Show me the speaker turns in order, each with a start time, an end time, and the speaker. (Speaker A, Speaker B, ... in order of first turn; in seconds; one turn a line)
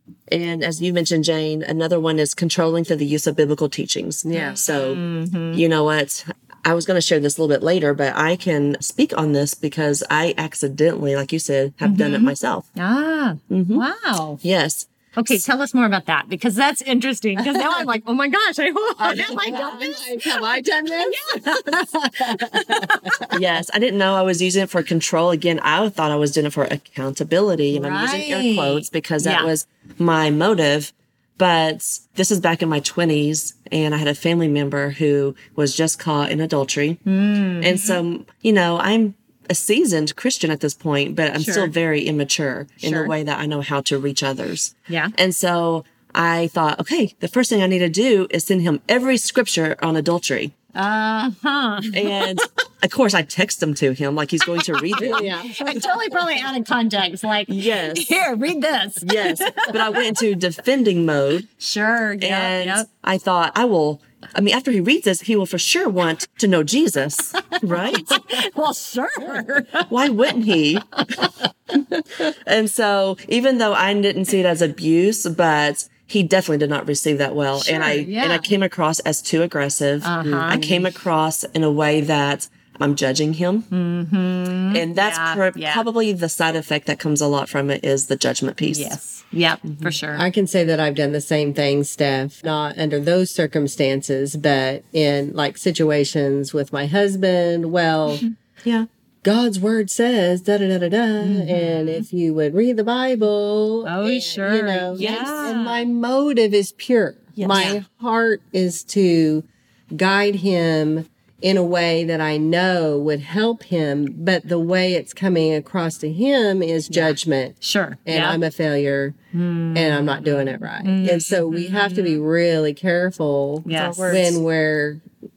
Speaker A: 0.3-5.0
Speaker B: 4.2-4.6
Speaker C: 4.3-5.6
Speaker A: 5.5-12.7
Speaker C: 11.8-14.4
Speaker A: 13.5-13.8
Speaker A: 14.4-15.4
Speaker C: 15.2-23.3
Speaker B: 19.0-23.4
Speaker A: 23.3-37.0
Speaker C: 27.7-29.5
Speaker C: 37.1-38.0
Speaker A: 37.6-50.5
Speaker C: 41.4-41.7
Speaker C: 42.8-43.1
Speaker C: 44.9-45.1
Speaker C: 50.7-52.5
Speaker A: 51.9-55.3
Speaker C: 54.6-60.2
Speaker B: 55.0-56.0
Speaker A: 57.5-58.2
Speaker A: 59.0-61.5
Speaker C: 61.6-62.9
Speaker A: 62.2-68.2
Speaker C: 67.3-70.0
Speaker A: 69.9-71.3
Speaker A: 72.2-83.7
Speaker C: 77.6-78.5
Speaker C: 80.0-80.6
Speaker B: 80.2-80.9
Speaker C: 83.7-85.8
Speaker A: 84.7-89.0
Speaker C: 88.7-90.2
Speaker A: 89.7-90.0
Speaker B: 90.1-98.2
Speaker A: 98.6-98.9
Speaker B: 99.2-119.2
Speaker C: 101.2-102.1
Speaker C: 103.9-105.9
Speaker A: 105.0-105.5
Speaker A: 107.4-107.8
Speaker C: 107.5-107.8
Speaker C: 116.9-118.4
Speaker C: 119.3-122.2
Speaker B: 119.7-125.0
Speaker C: 123.7-124.2
Speaker A: 123.7-124.4